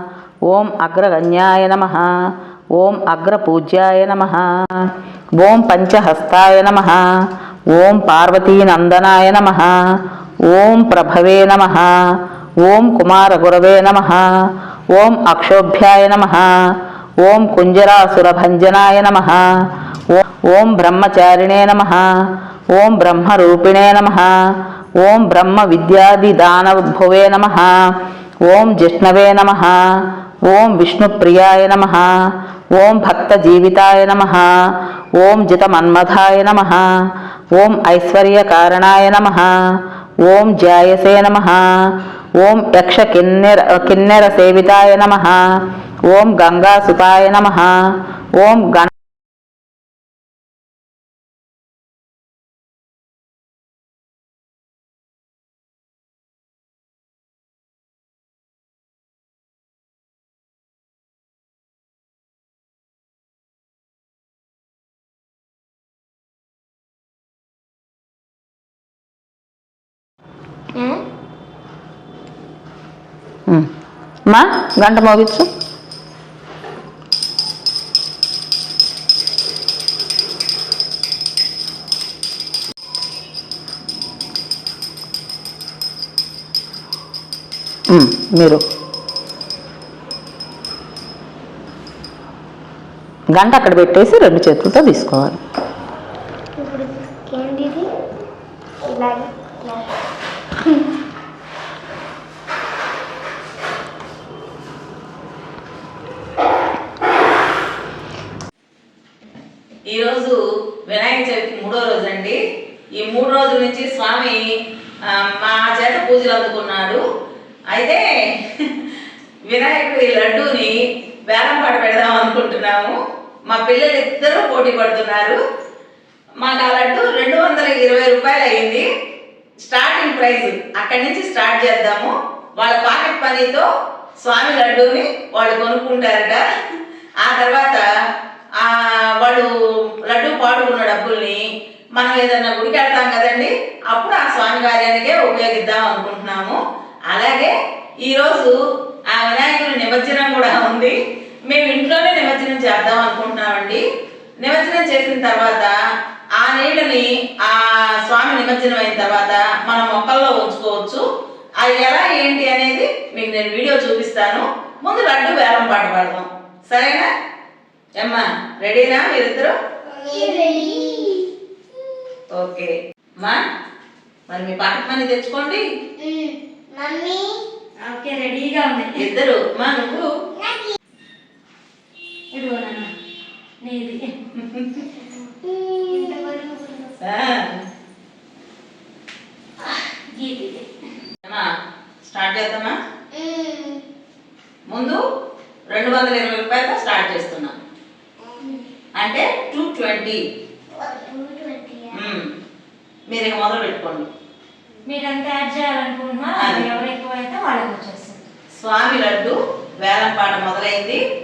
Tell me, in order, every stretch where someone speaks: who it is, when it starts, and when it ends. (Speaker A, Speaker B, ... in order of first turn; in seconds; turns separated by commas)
Speaker A: 0.5-2.0, Speaker A: 2.8-4.4, Speaker A: 5.4-7.0, Speaker A: 7.7-9.7, Speaker A: 10.5-11.9, Speaker A: 12.6-14.2, Speaker A: 14.9-16.5, Speaker A: 17.2-19.4, Speaker A: 20.1-22.0, Speaker A: 22.7-24.3, Speaker A: 25.0-27.7, Speaker A: 28.5-29.8, Speaker A: 30.5-32.1, Speaker A: 32.8-34.5, Speaker A: 35.2-36.8, Speaker A: 37.5-39.5, Speaker A: 40.2-41.6, Speaker A: 42.4-45.4, Speaker A: 46.1-47.7, Speaker A: 48.4-48.9, Speaker B: 70.8-71.0, Speaker A: 74.3-75.5, Speaker A: 87.9-88.6, Speaker A: 93.4-95.4, Speaker B: 96.6-97.9, Speaker B: 98.8-99.9, Speaker C: 109.9-112.4, Speaker C: 112.9-114.4, Speaker C: 115.1-117.0, Speaker C: 117.7-118.5, Speaker C: 119.5-120.8, Speaker C: 121.3-123.0, Speaker C: 123.5-125.4, Speaker C: 126.4-128.8, Speaker C: 129.6-133.7, Speaker C: 134.2-136.4, Speaker C: 137.2-137.8, Speaker C: 138.6-139.5, Speaker C: 140.1-141.4, Speaker C: 142.0-148.6, Speaker C: 149.1-150.9, Speaker C: 151.5-153.8, Speaker C: 154.4-155.8, Speaker C: 156.4-161.0, Speaker C: 161.6-167.1, Speaker C: 168.0-169.5, Speaker B: 169.9-171.3, Speaker D: 170.1-171.0, Speaker C: 172.4-173.4, Speaker C: 174.3-175.6, Speaker B: 176.0-177.4, Speaker D: 177.8-179.0, Speaker C: 178.9-180.1, Speaker B: 180.3-180.8, Speaker D: 182.3-182.9, Speaker D: 183.6-184.1, Speaker B: 184.7-186.8, Speaker D: 185.9-186.9, Speaker C: 187.0-187.6, Speaker D: 189.7-190.7, Speaker C: 192.0-192.8, Speaker B: 193.1-193.8, Speaker C: 194.7-195.0, Speaker C: 195.7-197.6, Speaker B: 198.2-198.7, Speaker C: 199.0-200.2, Speaker B: 200.7-202.1, Speaker C: 201.9-202.2, Speaker C: 203.1-204.1, Speaker D: 204.8-208.2, Speaker C: 206.4-206.7, Speaker C: 208.5-211.0